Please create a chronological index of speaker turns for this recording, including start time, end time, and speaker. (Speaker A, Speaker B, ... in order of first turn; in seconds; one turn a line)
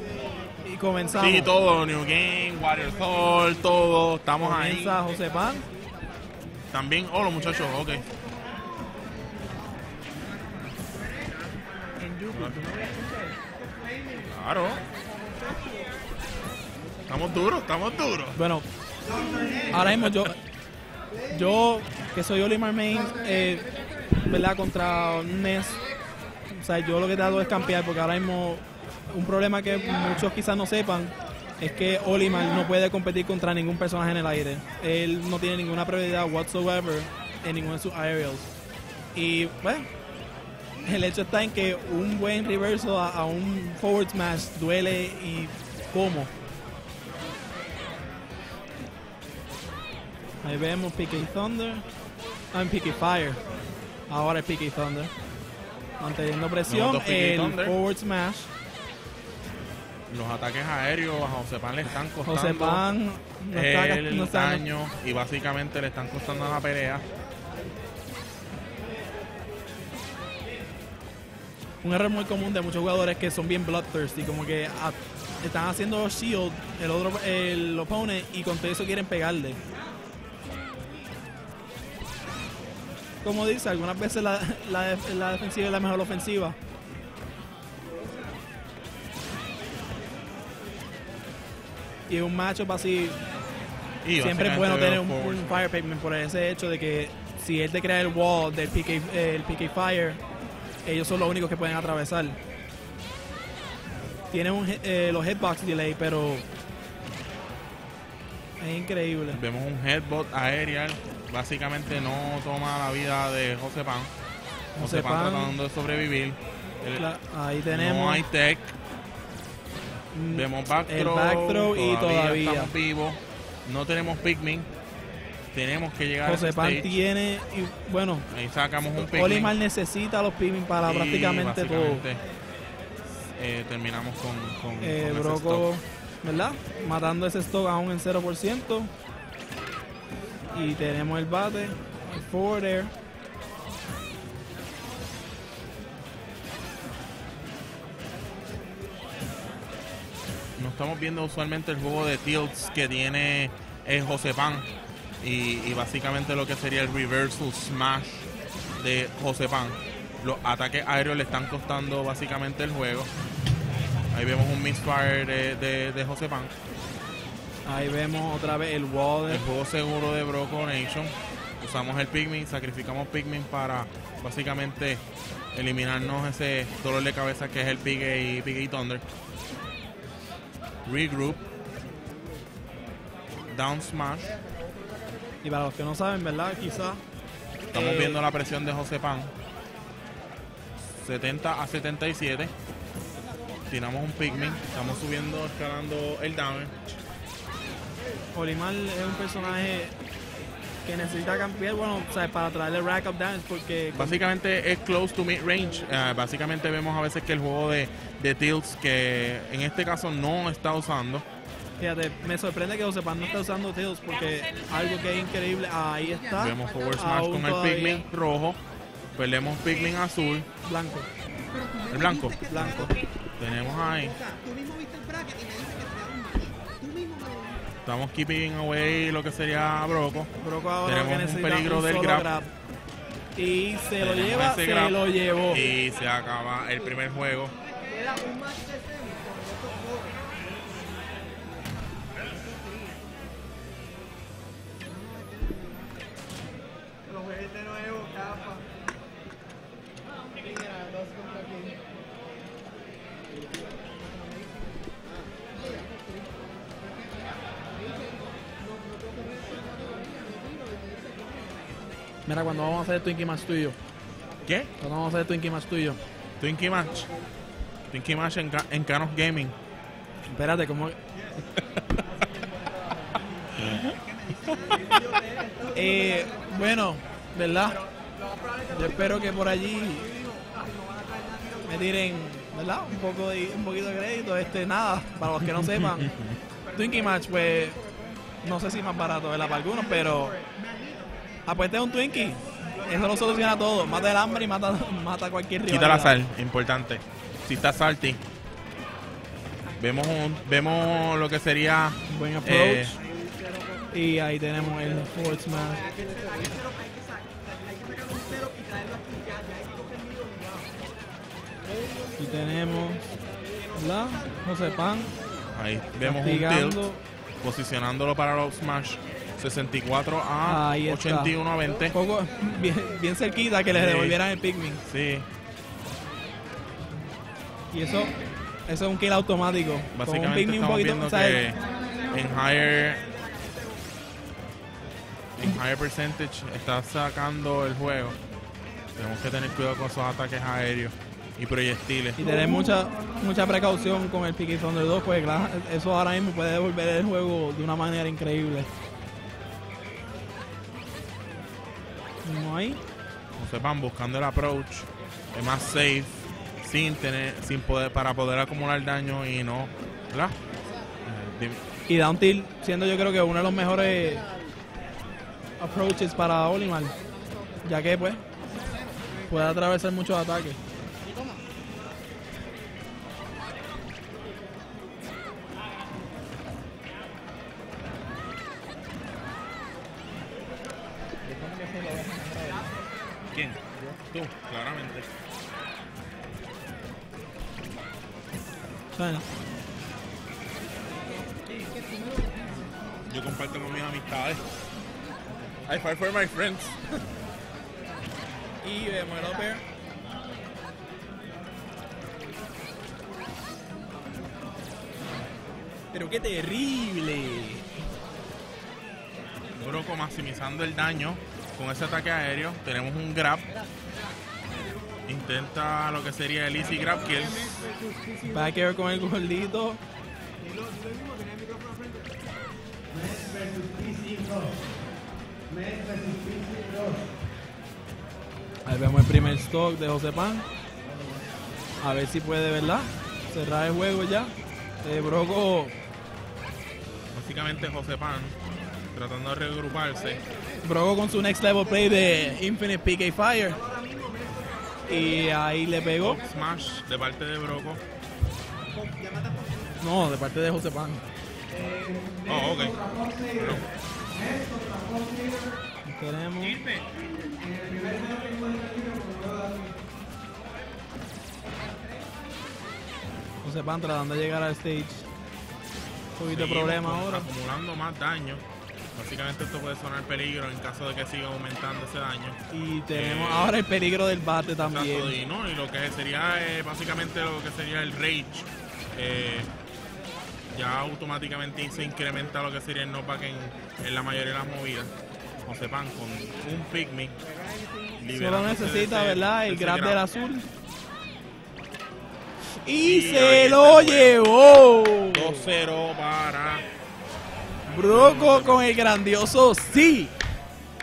Speaker A: 0.6-1.5
Speaker B: 1.2-5.0
Speaker A: 4.4-5.7
Speaker B: 6.7-8.1
Speaker A: 12.0-13.2
Speaker B: 12.3-12.8
Speaker B: 14.3-14.8
Speaker B: 17.1-18.4
Speaker A: 18.4-18.7
Speaker A: 19.7-20.4
Speaker B: 19.7-20.3
Speaker A: 21.3-23.7
Speaker A: 24.2-25.8
Speaker A: 26.5-38.5
Speaker A: 39.1-39.9
Speaker A: 40.8-46.3
Speaker A: 50.4-51.8
Speaker A: 52.5-53.4
Speaker A: 54.1-55.1
Speaker A: 56.0-58.5
Speaker B: 56.7-57.8
Speaker B: 60.1-62.8
Speaker A: 62.3-64.7
Speaker B: 63.5-67.1
Speaker A: 71.8-79.6
Speaker A: 83.2-86.6
Speaker A: 92.1-93.2
Speaker B: 94.0-95.6
Speaker A: 94.2-100.2
Speaker A: 100.8-102.4
Speaker A: 104.3-106.5
Speaker A: 108.6-109.4
Speaker B: 109.3-114.1
Speaker A: 114.8-115.6
Speaker B: 114.8-117.0
Speaker A: 117.0-118.3
Speaker B: 117.7-118.8
Speaker A: 120.1-122.7
Speaker B: 120.3-124.7
Speaker B: 125.5-127.0
Speaker A: 126.2-128.3
Speaker B: 128.3-129.6
Speaker A: 129.0-132.0
Speaker B: 130.8-132.2
Speaker B: 133.2-135.7
Speaker A: 134.8-138.9
Speaker A: 140.5-142.9
Speaker B: 150.6-154.7
Speaker B: 155.2-158.3
Speaker B: 158.8-163.1
Speaker B: 164.1-166.5
Speaker A: 167.7-169.4
Speaker B: 169.3-175.0
Speaker B: 175.5-179.0
Speaker B: 180.9-181.4
Speaker B: 183.5-184.4
Speaker A: 185.4-187.0
Speaker A: 187.7-188.2
Speaker B: 187.7-189.3
Speaker B: 190.8-192.5
Speaker B: 193.7-196.9
Speaker A: 198.3-199.9
Speaker A: 200.8-204.2
Speaker B: 203.9-211.2
Speaker A: 211.8-218.1
Speaker B: 216.4-218.6
Speaker B: 219.2-220.5
Speaker A: 220.7-221.1
Speaker B: 221.9-222.5
Speaker A: 222.4-223.0
Speaker B: 223.4-224.2
Speaker C: 224.2-227.6
Speaker B: 227.8-230.3
Speaker A: 230.4-232.5
Speaker B: 230.8-232.3
Speaker A: 233.4-235.6
Speaker B: 234.0-235.0
Speaker B: 235.5-237.5
Speaker C: 238.1-238.8
Speaker C: 247.7-248.3
Speaker A: 262.3-263.8
Speaker B: 264.4-264.7
Speaker A: 264.8-266.0
Speaker B: 266.4-267.1
Speaker B: 267.9-269.5
Speaker A: 270.3-271.0
Speaker B: 271.6-272.0
Speaker B: 273.6-274.8
Speaker C: 274.8-275.6
Speaker A: 275.7-277.8
Speaker A: 278.7-280.2
Speaker C: 280.3-281.5
Speaker A: 281.6-286.1
Speaker B: 285.5-286.4
Speaker A: 286.8-287.8
Speaker A: 288.4-290.4
Speaker A: 291.5-296.2
Speaker B: 295.7-298.2
Speaker B: 299.8-303.0
Speaker A: 302.1-303.0
Speaker A: 303.9-305.9
Speaker C: 306.3-310.5
Speaker A: 312.2-313.0
Speaker A: 313.8-315.1
Speaker B: 315.5-316.9
Speaker A: 316.0-317.0
Speaker B: 317.4-321.9
Speaker A: 320.4-321.4
Speaker A: 321.9-324.8
Speaker B: 323.7-324.2
Speaker B: 324.8-325.3
Speaker A: 327.7-328.1
Speaker A: 328.7-331.5
Speaker B: 329.9-333.1
Speaker C: 333.1-333.6
Speaker B: 335.4-338.2
Speaker B: 339.0-342.2
Speaker A: 342.2-348.7
Speaker A: 352.2-352.8
Speaker B: 353.4-360.4
Speaker B: 361.1-361.6
Speaker A: 361.9-364.3
Speaker A: 365.6-366.9
Speaker A: 367.6-368.2
Speaker A: 369.3-370.6
Speaker B: 383.3-385.1
Speaker A: 388.9-389.3
Speaker B: 393.1-394.4
Speaker B: 395.7-396.9
Speaker A: 398.6-399.6
Speaker A: 405.9-407.7
Speaker B: 409.5-413.5
Speaker B: 415.1-417.5
Speaker A: 418.2-419.8
Speaker C: 420.6-421.9
Speaker C: 423.2-424.5
Speaker C: 425.6-426.9
Speaker A: 428.7-430.4
Speaker A: 431.8-434.3
Speaker A: 434.8-435.7
Speaker B: 437.1-438.4
Speaker B: 438.9-440.2
Speaker A: 440.6-443.6
Speaker C: 443.8-444.5
Speaker A: 444.9-446.2
Speaker B: 446.0-447.8
Speaker C: 449.1-449.6
Speaker A: 449.8-451.0
Speaker B: 452.2-453.7
Speaker C: 454.3-455.2
Speaker A: 455.9-456.6
Speaker C: 457.4-459.5
Speaker A: 463.4-465.1
Speaker A: 466.2-467.3
Speaker B: 466.3-468.4
Speaker B: 468.9-472.4
Speaker A: 472.5-475.2
Speaker B: 472.9-473.6
Speaker B: 474.6-479.5
Speaker B: 480.5-484.9
Speaker B: 485.4-487.2
Speaker B: 488.0-490.0
Speaker A: 488.1-490.5
Speaker A: 492.6-495.5
Speaker B: 492.8-494.2
Speaker B: 495.1-496.6
Speaker A: 497.7-500.1
Speaker B: 497.9-498.7